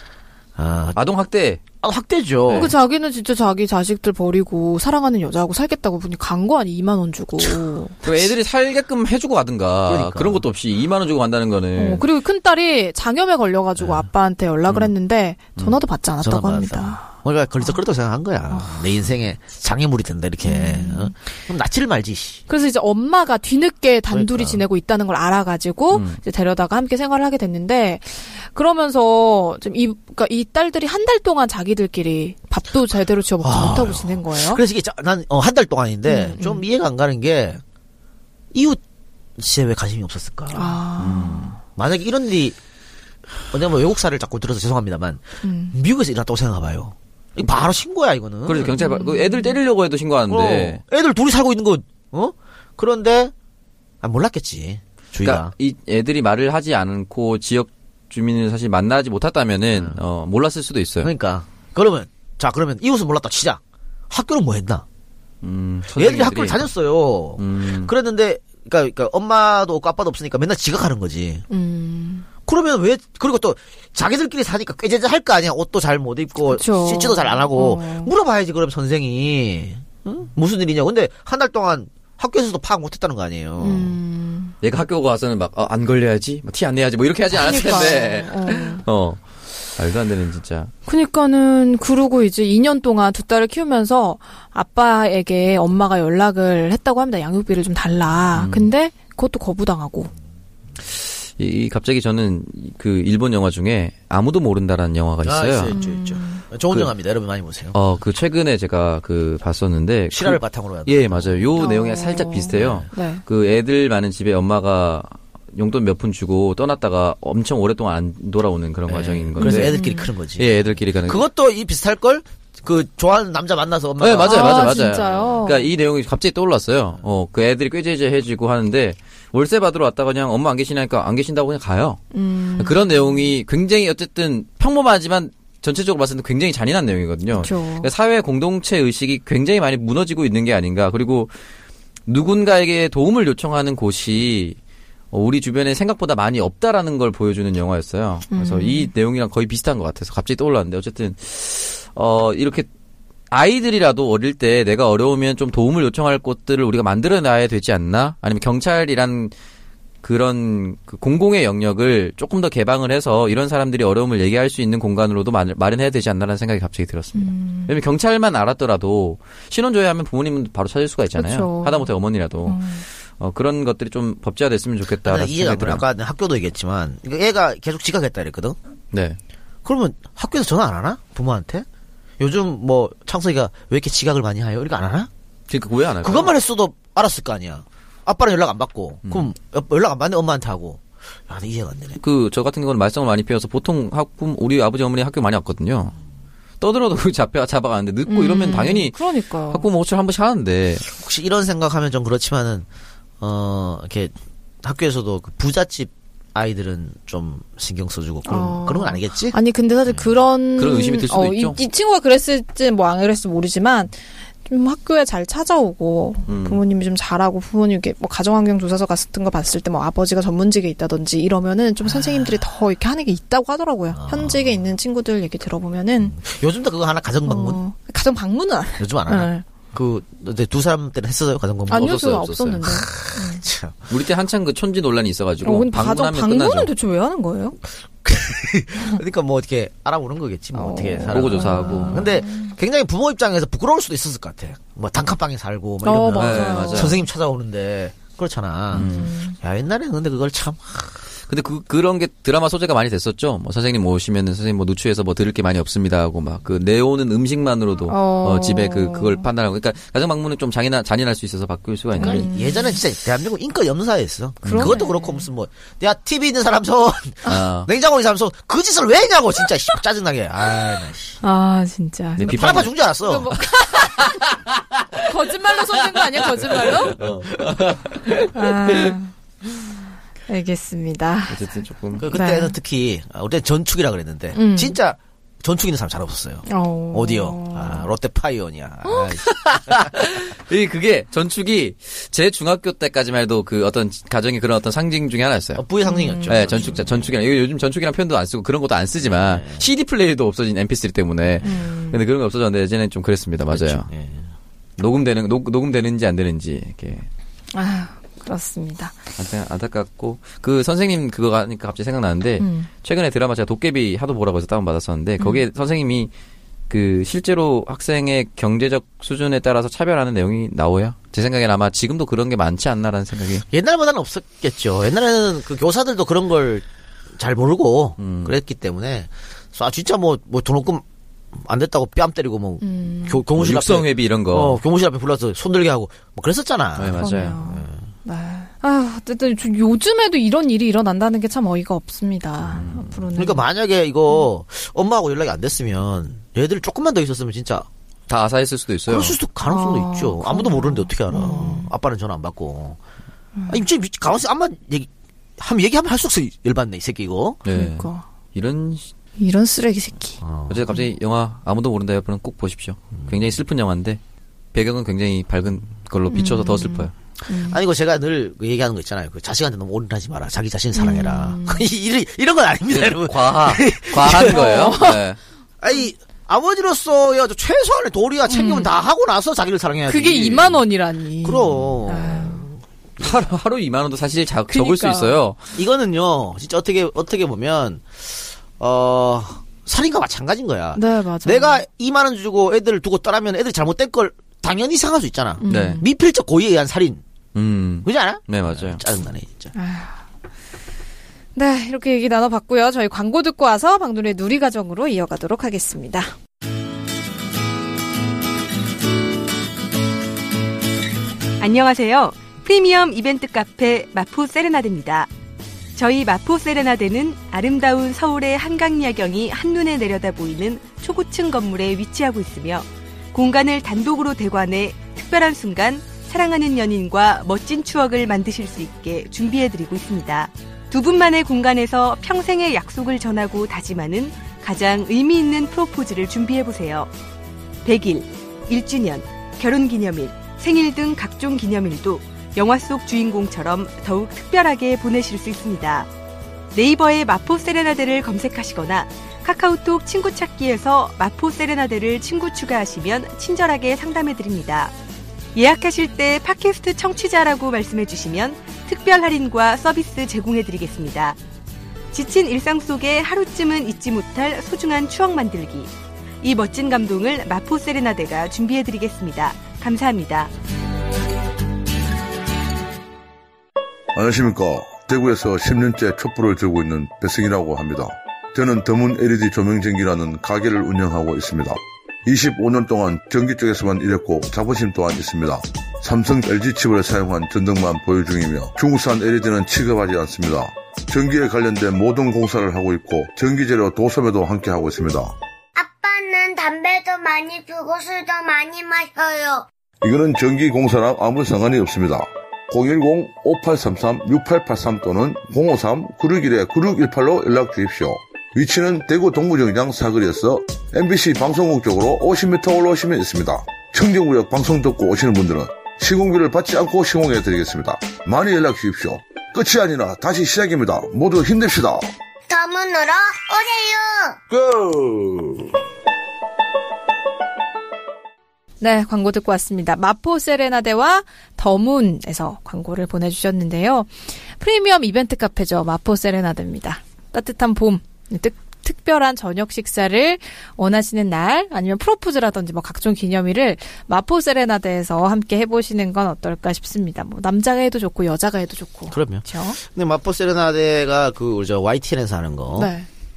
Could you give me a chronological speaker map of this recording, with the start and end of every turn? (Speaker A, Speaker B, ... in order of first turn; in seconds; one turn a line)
Speaker A: 0.6-1.0
Speaker B: 0.9-1.6
Speaker A: 1.8-2.7
Speaker B: 2.5-2.7
Speaker C: 2.5-8.0
Speaker B: 8.0-12.0
Speaker A: 9.9-10.4
Speaker C: 11.8-17.8
Speaker A: 13.8-14.1
Speaker A: 16.2-22.4
Speaker C: 18.5-18.8
Speaker C: 20.4-21.1
Speaker C: 22.5-34.6
Speaker A: 24.1-24.6
Speaker B: 25.9-26.2
Speaker A: 33.4-37.6
Speaker C: 36.1-36.6
Speaker A: 38.5-38.8
Speaker A: 39.4-40.8
Speaker C: 40.5-41.6
Speaker B: 41.0-41.5
Speaker A: 41.8-42.6
Speaker A: 43.5-48.8
Speaker C: 45.4-45.8
Speaker B: 48.5-50.8
Speaker C: 48.8-49.6
Speaker A: 50.3-53.3
Speaker A: 54.0-55.5
Speaker B: 55.2-61.1
Speaker A: 61.0-64.8
Speaker B: 65.4-66.7
Speaker A: 65.9-71.5
Speaker B: 67.4-67.9
Speaker C: 71.5-72.3
Speaker A: 72.5-84.0
Speaker C: 76.5-78.1
Speaker C: 83.6-84.5
Speaker B: 84.6-90.7
Speaker C: 87.3-88.8
Speaker C: 90.9-100.1
Speaker B: 98.3-98.7
Speaker B: 100.9-105.8
Speaker A: 105.2-107.8
Speaker C: 105.7-106.4
Speaker B: 107.7-119.7
Speaker A: 110.1-111.6
Speaker C: 111.6-113.2
Speaker A: 112.5-112.9
Speaker A: 118.9-124.9
Speaker C: 119.4-120.1
Speaker B: 120.4-121.2
Speaker B: 124.0-132.0
Speaker C: 124.2-125.7
Speaker C: 132.1-133.3
Speaker B: 132.6-141.3
Speaker C: 137.4-137.9
Speaker B: 142.1-144.6
Speaker B: 145.1-152.7
Speaker C: 148.3-148.9
Speaker B: 153.3-159.3
Speaker B: 160.0-175.8
Speaker C: 167.2-167.7
Speaker C: 171.2-171.9
Speaker C: 172.4-172.8
Speaker A: 175.0-178.6
Speaker B: 178.9-179.2
Speaker A: 179.7-181.7
Speaker A: 182.2-185.1
Speaker B: 185.5-186.3
Speaker A: 186.0-192.0
Speaker B: 192.0-196.0
Speaker B: 196.6-199.0
Speaker C: 198.1-199.7
Speaker B: 199.5-200.9
Speaker A: 200.9-202.7
Speaker A: 203.2-209.4
Speaker C: 208.2-226.2
Speaker B: 210.6-211.6
Speaker B: 216.3-216.6
Speaker A: 223.9-224.5
Speaker A: 226.0-227.6
Speaker C: 227.2-229.4
Speaker A: 228.8-232.0
Speaker C: 231.7-233.4
Speaker B: 231.8-232.8
Speaker A: 232.6-233.9
Speaker B: 233.9-236.7
Speaker C: 235.4-237.6
Speaker A: 238.0-251.0
Speaker C: 240.5-242.6
Speaker B: 241.1-242.1
Speaker C: 245.8-247.0
Speaker B: 246.1-247.0
Speaker B: 248.7-249.1
Speaker C: 248.7-249.3
Speaker B: 251.3-262.3
Speaker C: 257.9-259.2
Speaker C: 262.0-262.8
Speaker A: 262.0-271.2
Speaker B: 264.4-264.8
Speaker C: 264.4-265.2
Speaker B: 267.3-267.7
Speaker C: 271.2-274.1
Speaker B: 272.2-272.7
Speaker A: 272.3-273.3
Speaker B: 274.0-274.2
Speaker C: 275.0-277.0
Speaker B: 276.7-278.9
Speaker C: 278.3-279.1
Speaker C: 280.3-281.5
Speaker B: 281.3-282.1
Speaker A: 282.0-289.9
Speaker C: 282.0-282.6
Speaker C: 284.3-284.8
Speaker C: 286.5-287.9
Speaker B: 289.2-295.6
Speaker A: 295.6-297.1
Speaker C: 295.9-296.8
Speaker B: 296.3-303.9
Speaker A: 299.0-299.6
Speaker C: 301.4-302.0
Speaker A: 303.5-304.3
Speaker B: 304.8-307.1
Speaker C: 307.5-308.9
Speaker B: 309.2-316.1
Speaker C: 312.4-312.7
Speaker B: 316.7-323.4
Speaker A: 323.5-326.6
Speaker A: 327.2-330.8
Speaker B: 328.0-328.4
Speaker A: 331.4-337.8
Speaker C: 332.6-333.2
Speaker B: 333.4-334.6
Speaker B: 336.8-337.4
Speaker C: 337.0-343.4
Speaker A: 342.5-347.7
Speaker B: 342.6-342.9
Speaker B: 348.1-349.2
Speaker A: 348.9-352.8
Speaker C: 349.5-351.7
Speaker C: 353.4-353.6
Speaker A: 353.5-357.4
Speaker B: 357.5-358.9
Speaker C: 357.5-358.0
Speaker C: 359.2-360.2
Speaker A: 360.2-360.7
Speaker B: 360.5-364.0
Speaker B: 364.5-366.9
Speaker C: 366.1-367.6
Speaker A: 367.3-374.9
Speaker C: 370.8-371.7
Speaker B: 372.7-375.2
Speaker C: 374.1-375.0
Speaker A: 375.6-380.6
Speaker C: 378.3-378.7
Speaker C: 379.9-382.4
Speaker A: 381.2-383.2
Speaker B: 383.0-385.4
Speaker C: 384.5-385.2
Speaker A: 385.6-397.0
Speaker C: 390.8-391.6
Speaker C: 395.4-395.9
Speaker B: 395.5-395.8
Speaker B: 397.4-398.8
Speaker A: 397.8-399.5
Speaker C: 399.5-400.0
Speaker C: 401.4-406.1
Speaker D: 411.4-415.1
Speaker D: 415.8-436.9
Speaker D: 437.6-445.9
Speaker D: 446.5-454.8
Speaker D: 455.4-461.2
Speaker D: 461.9-470.3
Speaker E: 474.0-495.1
Speaker F: 495.6-499.5
Speaker E: 499.8-521.8
Speaker F: 522.3-524.2
Speaker E: 524.3-525.5
Speaker C: 528.6-549.6
Speaker A: 548.9-552.7
Speaker C: 552.6-552.9